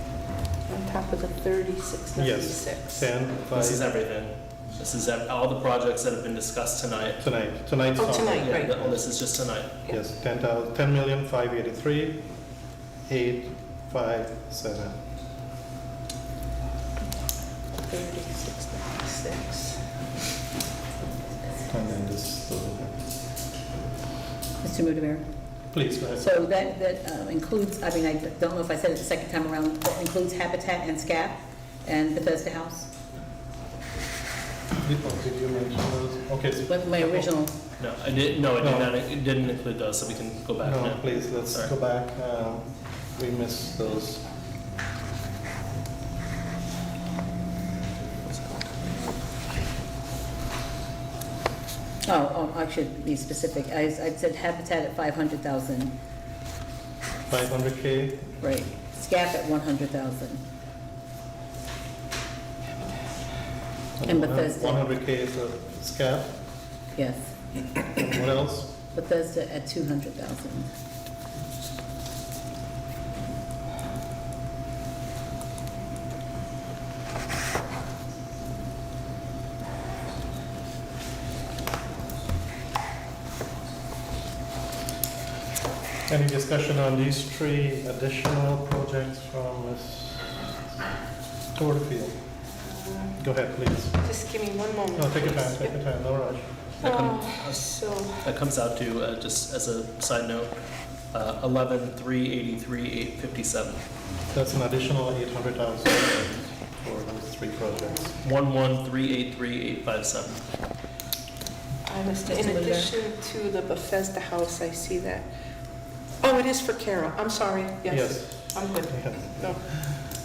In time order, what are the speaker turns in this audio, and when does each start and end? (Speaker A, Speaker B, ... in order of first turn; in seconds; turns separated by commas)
Speaker A: 0.7-3.1, Speaker B: 2.2-3.9, Speaker C: 3.5-7.2, Speaker B: 7.2-9.0, Speaker A: 8.0-8.7, Speaker C: 8.2-9.7, Speaker B: 9.9-12.2, Speaker B: 13.1-14.9, Speaker A: 17.8-19.8, Speaker B: 21.7-23.0, Speaker D: 24.6-25.2, Speaker B: 25.7-26.4, Speaker D: 26.2-32.9, Speaker B: 34.8-37.3, Speaker D: 36.7-37.6, Speaker C: 37.8-41.7, Speaker B: 38.6-38.9, Speaker B: 40.6-44.2, Speaker C: 48.4-48.9, Speaker D: 52.1-55.9, Speaker B: 57.3-58.4, Speaker D: 58.4-60.4, Speaker B: 64.0-66.3, Speaker D: 64.0-64.8, Speaker D: 67.0-67.3, Speaker B: 68.0-68.7, Speaker D: 68.9-70.7, Speaker B: 86.1-90.3, Speaker B: 91.5-92.2, Speaker B: 93.2-94.0, Speaker A: 94.0-95.8, Speaker B: 95.0-96.5, Speaker C: 96.8-100.5, Speaker A: 96.8-98.2, Speaker C: 101.1-103.8, Speaker B: 104.3-108.1, Speaker C: 108.2-110.4, Speaker A: 111.9-115.2, Speaker D: 112.3-112.9, Speaker A: 116.2-119.6, Speaker B: 117.9-119.6